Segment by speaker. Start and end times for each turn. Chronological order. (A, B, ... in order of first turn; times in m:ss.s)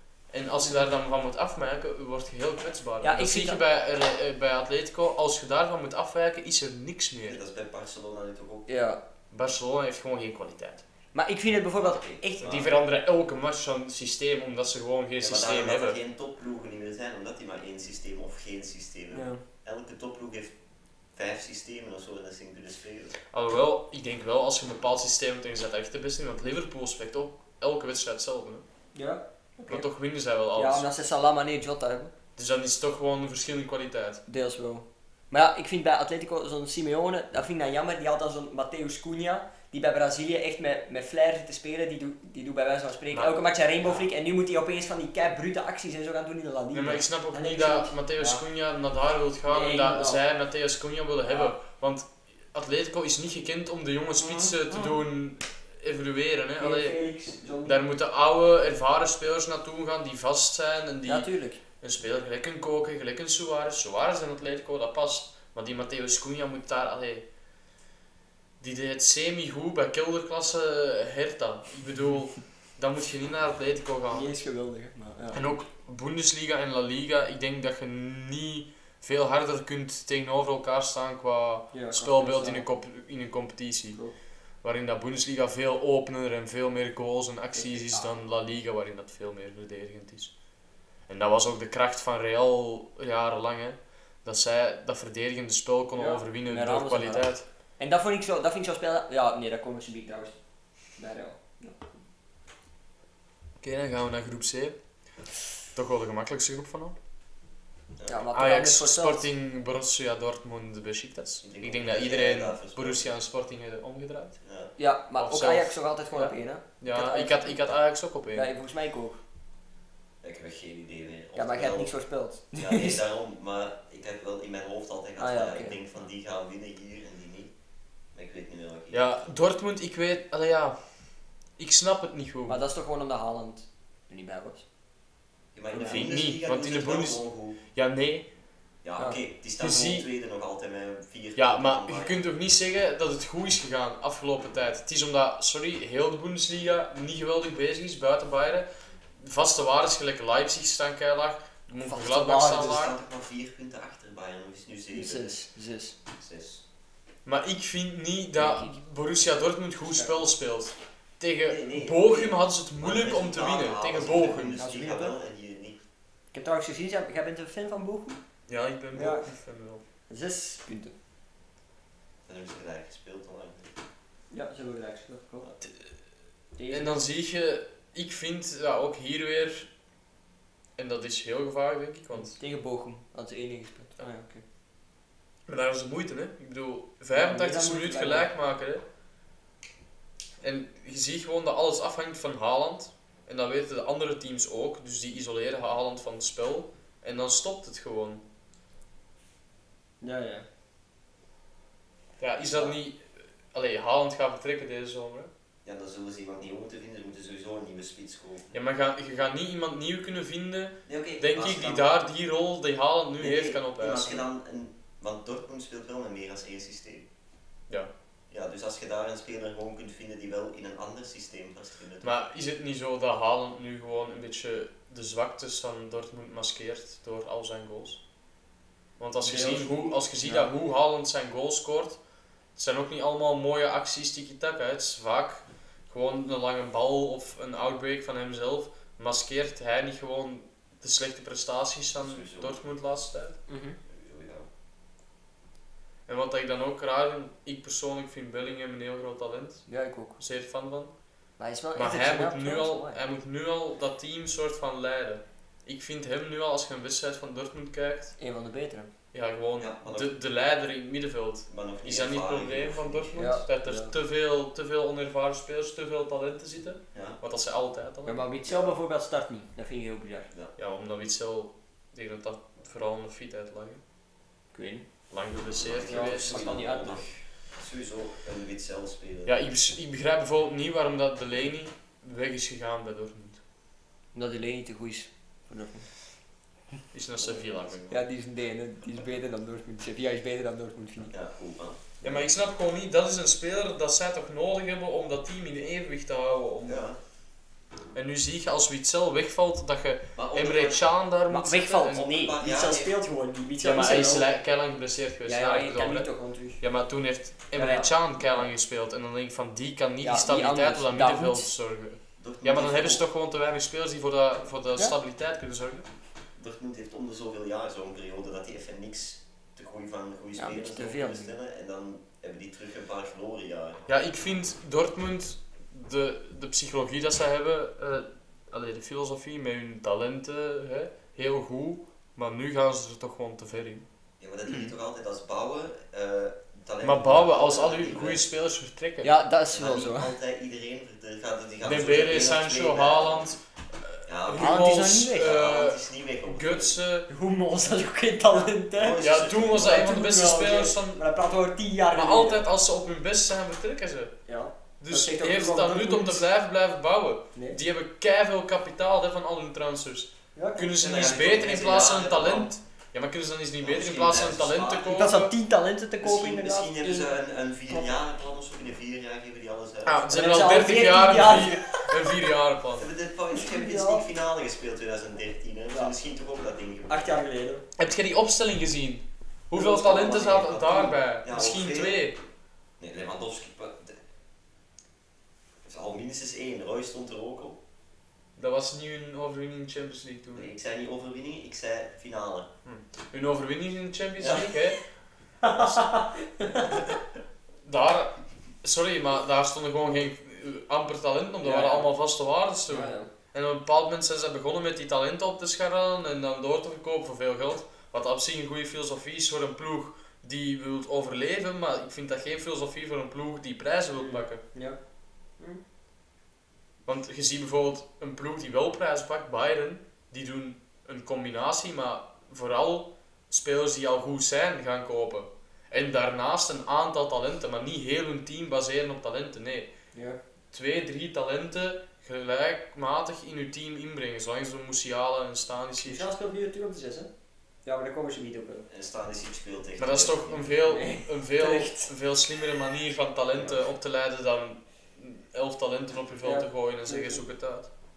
0:00.3-0:07.4 A
0:03.0-0:03.6 B
0:07.3-0:08.7 C
0:08.7-0:09.0 B
0:09.3-0:10.8 A
0:11.1-0:12.7 B
0:11.8-0:12.8 C
0:12.4-0:16.0 A
0:15.2-0:20.6 C
0:19.1-0:19.4 B
0:21.1-0:23.1 C
0:23.3-0:28.6 A
0:29.0-0:29.9 B
0:29.7-0:30.9 A
0:30.6-0:32.1 B
0:32.4-0:34.2 A
0:34.3-0:48.4 B
0:43.1-0:44.0 A
0:46.7-0:57.0 A
0:49.5-0:50.2 B
0:51.2-0:51.5 B
0:54.2-0:55.0 B
0:56.6-0:57.8 B
0:57.6-1:01.3 A
1:01.0-1:01.6 B
1:01.8-1:07.2 A
1:08.6-1:14.3 A
1:14.1-1:15.4 B
1:15.3-1:24.0 A
1:21.7-1:22.6 B
1:24.6-1:30.3 A
1:27.5-1:28.2 B
1:31.1-1:37.4 A
1:36.0-1:40.4 B
1:41.0-1:41.9 B
1:43.6-1:44.8 A
1:45.7-1:47.0 A
1:48.0-1:48.2 C
1:48.1-1:49.3 B
1:48.3-1:54.4 A
1:51.4-1:53.1 C
1:54.4-1:54.7 C
1:54.8-1:57.6 B
1:55.2-1:58.5 A
1:58.3-1:59.2 B
2:00.2-2:01.9 C
2:01.4-2:03.0 B
2:02.5-2:07.5 C
2:05.2-2:05.8 B
2:08.1-2:09.2 C
2:08.9-2:10.8 A
2:11.6-2:12.6 A
2:12.5-2:14.6 B
2:15.5-2:17.6 C
2:15.7-2:16.0 B
2:15.8-2:18.3 A
2:18.8-2:22.2 C
2:19.6-2:20.1 A
2:21.4-2:28.7 A
2:29.2-2:33.0 A
2:31.8-2:32.9 B
2:32.5-2:35.4 C
2:34.9-2:36.0 B
2:36.2-2:36.6 C
2:37.2-2:44.6 A
2:38.4-2:38.8 B
2:39.9-2:40.2 B
2:41.4-2:45.8 C
2:44.6-2:45.1 B
2:46.3-2:48.2 B
2:48.5-2:49.8 A
2:48.9-2:49.3 B
2:50.1-2:50.9 B
2:52.3-2:53.7 C
2:54.3-2:55.5 B
2:56.6-2:57.0 B
2:56.7-2:59.7 A
3:00.8-3:02.4 A
3:02.1-3:04.4 B
3:05.5-3:08.8 A
3:07.1-3:08.3 B
3:10.4-3:18.2 A
3:20.0-3:20.5 B
3:22.2-3:25.3 A
3:25.6-3:28.5 C
3:28.5-3:34.3 A
3:30.9-3:31.9 C
3:33.2-3:37.1 C
3:38.3-3:42.1 C
3:42.0-3:48.0 A
3:49.0-3:52.0 A
3:49.2-3:50.5 B
3:52.6-4:03.4 A
4:02.0-4:02.6 C
4:03.5-4:03.8 B
4:03.9-4:04.5 C
4:06.1-4:09.7 A
4:09.7-4:10.2 B
4:10.2-4:10.9 A
4:11.4-4:13.0 B
4:11.8-4:18.1 A
4:18.2-4:18.9 B
4:19.1-4:28.2 A
4:19.6-4:20.1 C
4:21.5-4:23.3 C
4:23.1-4:23.9 B
4:26.9-4:27.2 C
4:28.0-4:30.3 B
4:28.5-4:28.7 C
4:30.6-4:33.8 A
4:34.5-4:34.9 B
4:35.1-4:36.6 A
4:35.6-4:39.4 C
4:35.9-4:37.0 B
4:39.3-4:43.4 A
4:44.1-4:45.9 B
4:46.9-4:48.0 A
4:47.2-4:47.8 C
4:47.9-4:51.1 B
4:51.1-4:52.2 C
4:52.0-4:56.9 A
4:56.6-4:57.0 C
4:57.9-5:02.0 A
5:00.2-5:00.8 C
5:01.3-5:04.3 B
5:01.9-5:02.9 C
5:03.6-5:15.9 A
5:05.3-5:06.6 B
5:07.5-5:08.5 B
5:10.0-5:11.5 B
5:12.2-5:13.0 C
5:16.4-5:23.9 C
5:20.4-5:21.3 B
5:23.9-5:33.9 A
5:34.2-5:38.3 C
5:36.8-5:39.1 A
5:39.0-5:40.1 B
5:39.5-5:43.4 C
5:41.6-5:47.1 A
5:44.1-5:46.8 C
5:44.4-5:45.4 B
5:47.1-5:52.4 B
5:48.7-5:49.8 C
5:49.0-5:51.0 A
5:51.9-5:54.1 A
5:54.3-5:56.2 B
5:54.8-6:05.3 A
6:00.4-6:00.7 B
6:00.8-6:02.5 C
6:03.6-6:05.0 C
6:04.9-6:07.1 B
6:06.0-6:10.1 C
6:09.8-6:12.9 A
6:10.1-6:11.9 B
6:12.8-6:17.0 C
6:13.3-6:14.1 B
6:16.9-6:17.6 B
6:17.8-6:22.2 A
6:19.5-6:20.9 B
6:20.3-6:22.1 C
6:22.8-6:24.0 C
6:25.6-6:27.6 C
6:28.4-6:30.5 A
6:30.4-6:32.5 C
6:32.6-6:34.8 A
6:34.2-6:34.5 C
6:35.4-6:36.8 B
6:37.6-6:54.4 A
6:41.4-6:41.9 B
6:42.7-6:43.1 B
6:54.0-6:54.8 B
6:56.9-7:09.7 A
7:09.9-7:10.2 B
7:10.5-7:16.1 A
7:15.8-7:17.1 B
7:17.6-7:18.7 B
7:18.7-7:20.5 C
7:19.8-7:27.7 A
7:20.6-7:21.9 B
7:26.2-7:27.2 B